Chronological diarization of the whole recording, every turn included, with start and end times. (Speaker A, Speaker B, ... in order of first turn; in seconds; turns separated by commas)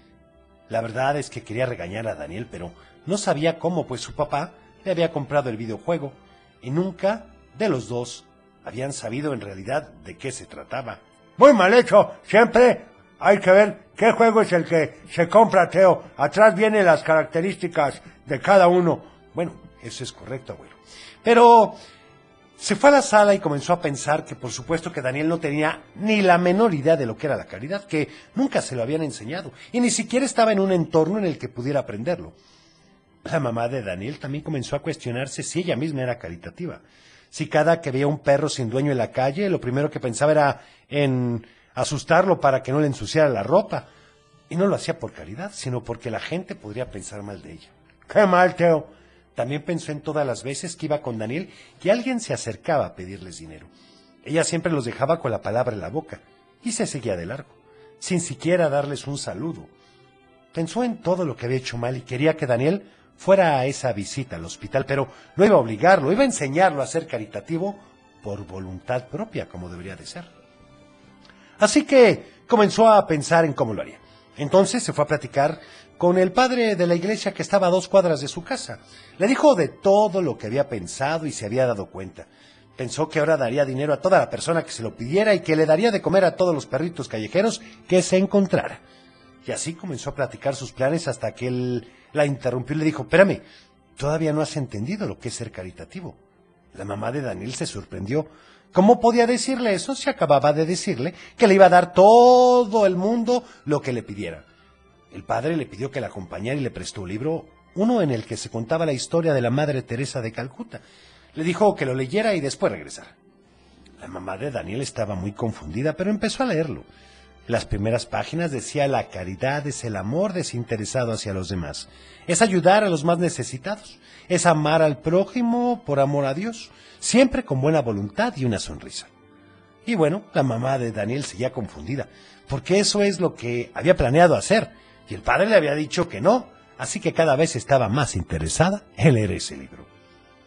Speaker A: 0.7-21.8, Speaker A: 22.6-32.4, Speaker A: 33.2-43.9, Speaker A: 44.5-53.7, Speaker A: 54.2-59.7, Speaker A: 60.5-70.3, Speaker A: 71.6-88.8, Speaker A: 89.5-93.4, Speaker A: 94.0-96.2, Speaker A: 96.7-104.4, Speaker A: 105.1-110.8, Speaker A: 111.3-113.1, Speaker A: 114.0-116.9, Speaker A: 117.5-129.1, Speaker A: 129.9-139.9